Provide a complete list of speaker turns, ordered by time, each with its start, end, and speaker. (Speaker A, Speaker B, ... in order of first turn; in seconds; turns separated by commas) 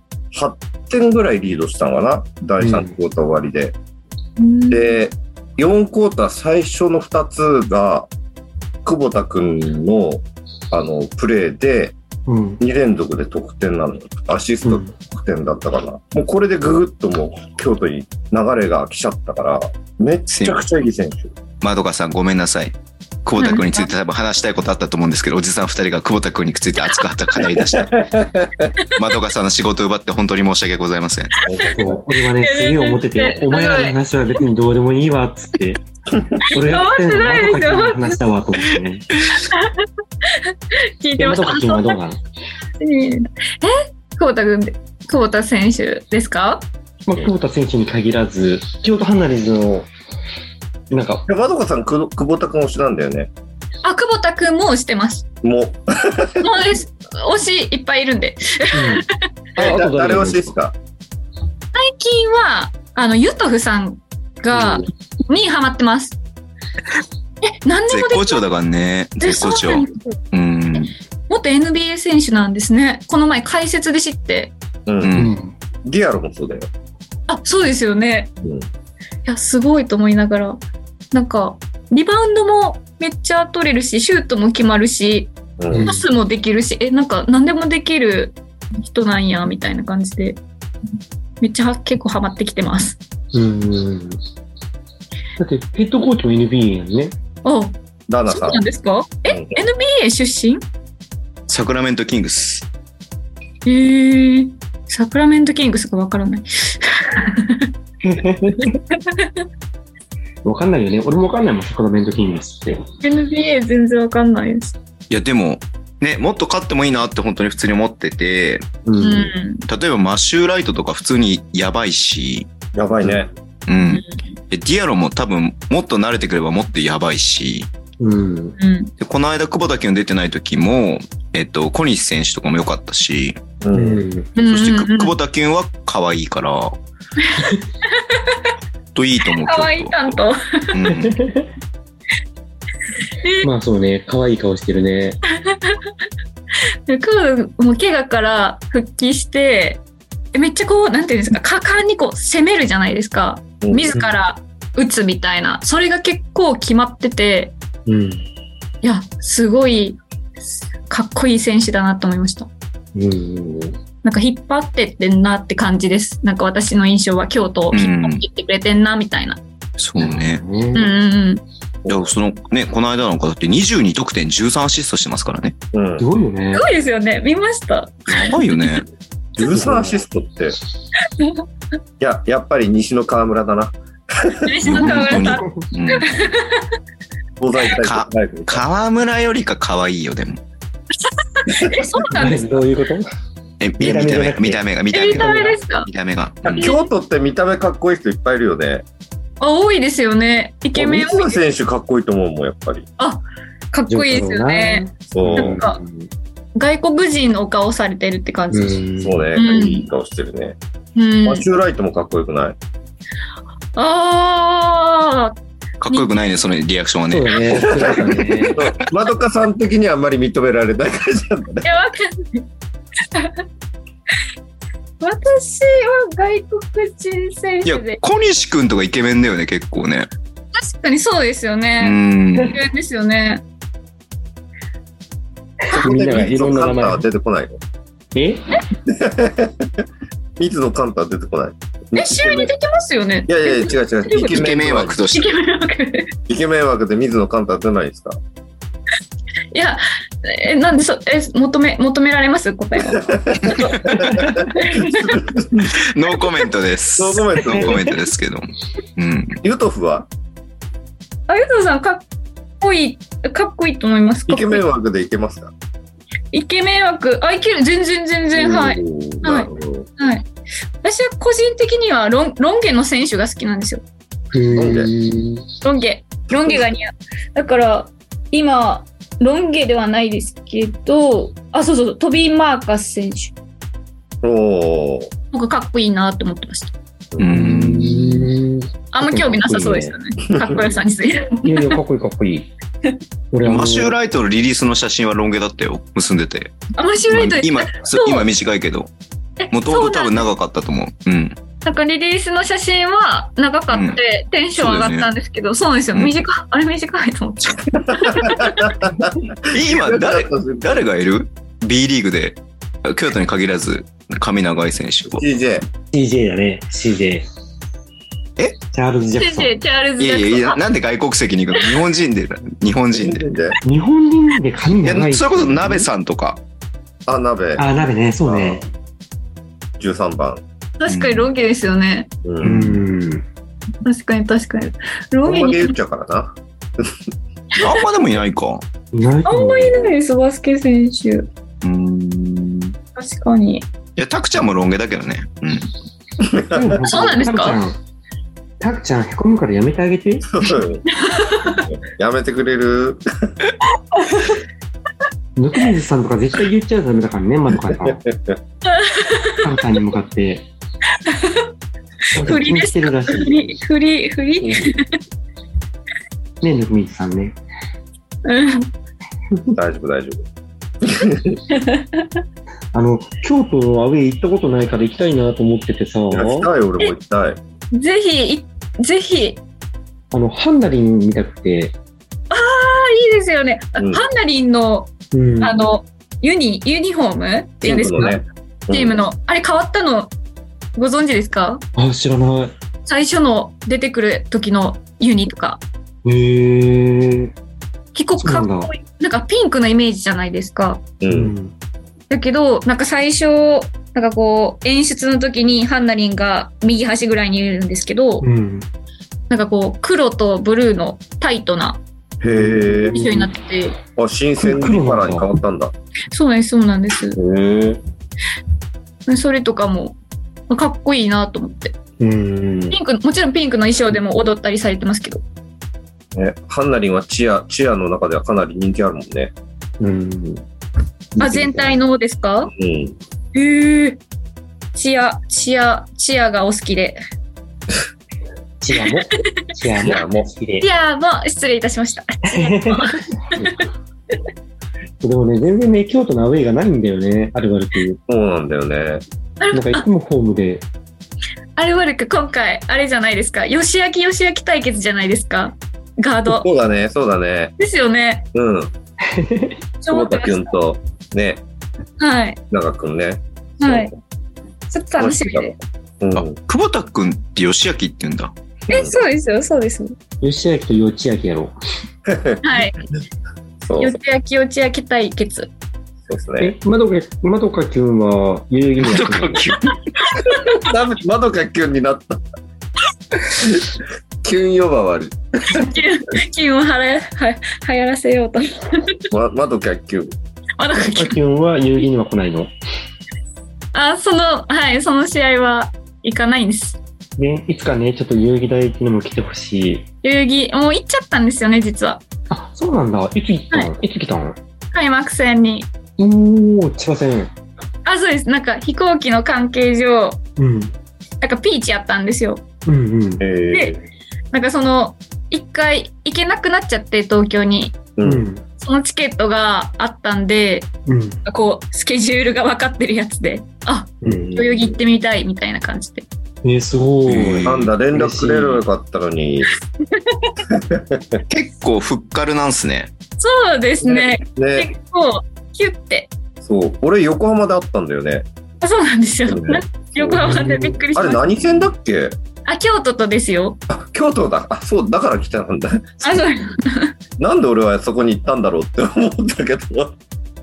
Speaker A: 0.3-3.8, Speaker B: 2.6-2.9, Speaker C: 4.4-5.0, Speaker A: 4.7-8.1, Speaker A: 8.8-12.0, Speaker B: 12.3-12.6, Speaker A: 12.6-21.3, Speaker B: 14.6-14.9, Speaker D: 20.3-20.6, Speaker D: 21.6-28.0, Speaker C: 23.4-23.9, Speaker A: 27.7-28.7, Speaker D: 29.0-31.3, Speaker A: 31.4-32.0, Speaker B: 31.7-35.8, Speaker C: 32.4-34.0, Speaker B: 36.4-39.1, Speaker C: 36.5-38.2, Speaker C: 39.5-39.9, Speaker C: 41.0-42.0, Speaker B: 41.2-42.2, Speaker C: 42.8-46.7, Speaker B: 47.1-49.9, Speaker B: 50.9-51.3, Speaker A: 51.3-53.3, Speaker C: 53.8-55.3, Speaker A: 55.4-56.5, Speaker C: 56.4-59.1, Speaker B: 58.7-60.5, Speaker A: 59.6-60.8, Speaker C: 61.7-66.2, Speaker B: 64.5-64.8, Speaker C: 67.5-68.4, Speaker D: 67.9-71.0, Speaker C: 69.2-70.2, Speaker C: 71.3-74.5, Speaker A: 74.9-75.2, Speaker D: 75.0-75.3, Speaker B: 75.2-75.5, Speaker A: 75.8-76.7, Speaker C: 77.3-78.3, Speaker A: 78.4-78.7, Speaker C: 79.3-80.6, Speaker C: 81.1-85.3, Speaker A: 85.6-85.9, Speaker B: 85.7-86.0, Speaker C: 85.8-90.4, Speaker C: 91.4-93.0, Speaker B: 93.3-94.2, Speaker B: 95.4-97.2, Speaker C: 97.4-97.8, Speaker A: 98.1-98.6, Speaker C: 98.3-100.6, Speaker A: 99.3-99.6, Speaker D: 101.5-102.7, Speaker C: 103.7-107.7, Speaker B: 108.0-108.8, Speaker C: 108.9-109.4, Speaker B: 110.4-112.8, Speaker C: 113.0-114.8, Speaker D: 115.1-118.7, Speaker B: 118.8-119.3, Speaker C: 119.0-119.6, Speaker D: 119.7-122.5, Speaker A: 122.7-123.3, Speaker D: 123.7-127.7, Speaker C: 123.8-124.2, Speaker B: 128.0-128.6, Speaker C: 128.6-128.9, Speaker D: 129.0-133.4, Speaker A: 133.6-134.1, Speaker B: 133.7-134.3, Speaker C: 134.4-135.2, Speaker D: 134.4-136.8, Speaker C: 137.9-138.5, Speaker D: 138.9-140.2, Speaker C: 139.4-140.9, Speaker D: 140.7-141.2, Speaker B: 140.9-141.5, Speaker C: 143.2-143.5, Speaker B: 143.4-145.2, Speaker C: 145.5-145.8, Speaker C: 146.9-149.8, Speaker C: 150.3-157.5, Speaker A: 153.6-154.0, Speaker B: 157.9-158.2, Speaker C: 158.8-160.0, Speaker C: 160.9-162.5, Speaker B: 162.9-163.8, Speaker C: 164.0-169.4, Speaker D: 167.7-168.2, Speaker D: 169.8-170.4, Speaker B: 170.0-170.9, Speaker C: 170.7-171.4, Speaker A: 171.8-172.1, Speaker D: 171.9-175.6, Speaker A: 175.7-176.1, Speaker B: 176.0-176.7, Speaker C: 176.6-178.8, Speaker D: 178.1-178.9, Speaker A: 179.4-180.6, Speaker B: 179.4-179.9, Speaker A: 182.0-184.7, Speaker C: 184.4-186.7, Speaker D: 184.6-186.2, Speaker B: 185.0-185.7, Speaker A: 187.4-188.7, Speaker D: 187.8-190.4, Speaker C: 191.3-192.6, Speaker A: 191.5-191.9, Speaker B: 192.1-193.1, Speaker D: 193.6-196.7, Speaker B: 193.8-195.6, Speaker C: 194.9-195.9, Speaker A: 196.4-198.9, Speaker C: 196.6-196.9, Speaker C: 199.4-201.4, Speaker A: 200.8-202.9, Speaker C: 203.0-204.8, Speaker B: 203.9-206.1, Speaker A: 205.1-205.6, Speaker C: 205.4-205.8, Speaker C: 206.6-208.8, Speaker B: 208.5-209.3, Speaker A: 209.0-210.6, Speaker C: 209.3-209.9, Speaker C: 211.0-211.5, Speaker A: 211.2-212.6, Speaker C: 213.8-215.4, Speaker D: 215.8-217.9, Speaker B: 217.1-218.6, Speaker A: 217.5-221.7, Speaker C: 221.6-222.5, Speaker C: 223.1-223.4, Speaker C: 225.0-228.0, Speaker D: 227.7-230.1, Speaker C: 230.6-233.4, Speaker D: 231.8-232.6, Speaker B: 235.6-237.0, Speaker A: 235.7-237.6, Speaker B: 238.1-238.4, Speaker A: 238.9-239.8, Speaker A: 240.4-242.5, Speaker C: 241.9-244.5, Speaker A: 243.3-245.0, Speaker D: 244.2-245.2, Speaker C: 245.1-246.2, Speaker A: 246.3-248.2, Speaker C: 249.5-255.2, Speaker A: 252.9-255.7, Speaker D: 253.5-253.8, Speaker B: 253.9-254.4, Speaker D: 255.7-259.4, Speaker C: 256.1-256.5, Speaker A: 257.0-257.8, Speaker A: 259.4-260.1, Speaker C: 261.3-262.0, Speaker C: 262.6-264.6, Speaker A: 264.3-265.5, Speaker C: 266.3-270.3, Speaker A: 268.4-269.9, Speaker C: 270.8-273.8, Speaker B: 274.3-275.4, Speaker A: 274.6-274.9, Speaker C: 275.6-283.3, Speaker A: 276.3-276.7, Speaker A: 284.2-285.1, Speaker C: 285.3-286.7, Speaker D: 287.2-288.3, Speaker B: 287.3-289.9, Speaker C: 288.9-291.8, Speaker A: 290.4-290.8, Speaker B: 291.4-292.5, Speaker B: 293.3-293.9, Speaker D: 293.4-296.5, Speaker C: 296.8-298.3, Speaker D: 297.1-298.9, Speaker C: 299.4-300.3, Speaker D: 299.5-301.4, Speaker C: 301.6-308.8, Speaker D: 303.7-304.0, Speaker D: 304.6-305.1, Speaker A: 307.8-310.9, Speaker D: 309.5-315.2, Speaker A: 315.2-315.7, Speaker B: 315.9-317.3, Speaker B: 318.7-319.5, Speaker C: 319.2-320.6, Speaker D: 320.0-323.3, Speaker C: 321.6-321.8, Speaker A: 322.9-323.6, Speaker B: 323.6-325.9, Speaker D: 324.8-326.4, Speaker A: 327.1-327.6, Speaker B: 327.6-328.7, Speaker A: 328.2-328.7, Speaker A: 329.8-330.4, Speaker C: 330.8-332.1, Speaker D: 330.9-331.3, Speaker A: 332.2-332.8, Speaker B: 332.4-333.3, Speaker C: 333.8-335.8, Speaker A: 335.2-336.9, Speaker D: 337.6-338.6, Speaker B: 338.9-339.9, Speaker C: 339.3-341.3, Speaker D: 341.6-342.8, Speaker C: 343.0-343.7, Speaker D: 344.0-345.7, Speaker A: 346.2-346.8, Speaker B: 346.5-347.8, Speaker C: 346.9-347.6, Speaker B: 348.6-350.3, Speaker A: 350.3-350.9, Speaker C: 350.9-351.6, Speaker A: 351.5-353.3, Speaker C: 354.0-354.4, Speaker B: 355.4-358.1, Speaker A: 357.7-358.4, Speaker C: 358.6-359.5, Speaker B: 359.4-360.5, Speaker C: 361.1-361.5, Speaker B: 362.1-363.5, Speaker C: 362.2-365.0, Speaker A: 364.4-364.7, Speaker B: 366.4-367.4, Speaker C: 368.2-368.7, Speaker A: 369.6-370.3, Speaker A: 370.8-371.4, Speaker C: 371.5-372.2, Speaker B: 372.7-376.5, Speaker A: 376.1-377.4, Speaker C: 377.7-379.4, Speaker B: 380.1-381.8, Speaker C: 382.3-388.2, Speaker A: 383.8-384.0, Speaker B: 385.1-385.6, Speaker A: 387.6-389.0, Speaker C: 388.7-390.1, Speaker C: 390.8-391.6, Speaker B: 391.8-392.5, Speaker C: 392.9-395.6, Speaker B: 396.1-397.3, Speaker C: 397.9-400.8, Speaker B: 398.2-398.7, Speaker A: 401.0-401.3, Speaker B: 401.1-401.5, Speaker C: 402.1-408.3, Speaker B: 408.2-408.7, Speaker C: 409.3-411.8, Speaker A: 412.2-413.0, Speaker B: 412.3-413.3, Speaker C: 412.9-413.8, Speaker A: 414.0-415.7, Speaker B: 414.4-415.3, Speaker C: 416.1-417.2, Speaker A: 417.1-417.8, Speaker C: 419.1-420.0, Speaker C: 420.5-421.7, Speaker B: 422.0-422.8, Speaker C: 422.7-425.2, Speaker A: 426.1-429.3, Speaker B: 429.8-430.5, Speaker B: 431.2-431.8, Speaker C: 431.2-432.5, Speaker A: 432.6-433.0, Speaker C: 433.3-434.0, Speaker C: 434.8-437.0, Speaker B: 438.6-440.7, Speaker A: 439.8-440.3, Speaker C: 440.6-443.6, Speaker B: 442.3-443.6, Speaker B: 445.0-448.0, Speaker A: 448.1-449.0, Speaker C: 449.4-449.9, Speaker B: 449.5-450.6, Speaker C: 451.6-456.4, Speaker A: 456.3-457.5, Speaker C: 457.6-458.2, Speaker A: 458.4-458.7, Speaker B: 459.1-459.6, Speaker C: 459.8-460.5, Speaker A: 459.9-461.4, Speaker C: 462.0-462.4, Speaker A: 462.5-463.9, Speaker C: 463.6-463.9, Speaker C: 464.7-465.6, Speaker A: 465.0-466.4, Speaker D: 466.1-468.3, Speaker A: 468.7-469.0, Speaker C: 468.7-469.9, Speaker B: 470.2-471.5, Speaker A: 472.1-472.4, Speaker C: 472.4-472.8, Speaker A: 473.6-473.9, Speaker C: 473.8-475.5, Speaker A: 476.1-476.6, Speaker B: 476.4-479.5, Speaker D: 478.8-479.8, Speaker C: 480.1-480.6, Speaker A: 480.4-482.2, Speaker A: 483.4-485.7, Speaker C: 485.5-489.0, Speaker A: 489.1-490.1, Speaker C: 490.6-491.2, Speaker B: 490.9-492.5, Speaker C: 493.7-496.8, Speaker B: 497.2-499.9, Speaker C: 500.0-502.0, Speaker B: 502.3-504.4, Speaker C: 504.7-505.7, Speaker B: 506.0-507.3, Speaker C: 507.9-510.2, Speaker B: 510.4-510.7, Speaker C: 511.2-512.4, Speaker B: 512.7-513.2, Speaker A: 513.2-513.9, Speaker C: 514.3-517.8, Speaker A: 518.0-518.2, Speaker B: 518.0-518.4, Speaker C: 518.6-520.7, Speaker B: 520.9-521.2, Speaker C: 521.2-526.1, Speaker B: 524.0-524.4, Speaker A: 524.1-524.7, Speaker B: 526.4-528.6, Speaker D: 527.1-527.7, Speaker A: 527.5-529.5, Speaker C: 529.9-530.3, Speaker A: 530.5-531.2, Speaker D: 531.3-532.9, Speaker C: 533.2-536.1, Speaker A: 533.8-534.7, Speaker A: 536.4-538.3, Speaker C: 538.6-541.2, Speaker A: 539.3-540.3, Speaker B: 540.2-540.8, Speaker A: 541.0-542.2, Speaker C: 542.5-543.6, Speaker A: 543.7-546.2, Speaker C: 546.0-546.9, Speaker A: 547.2-550.0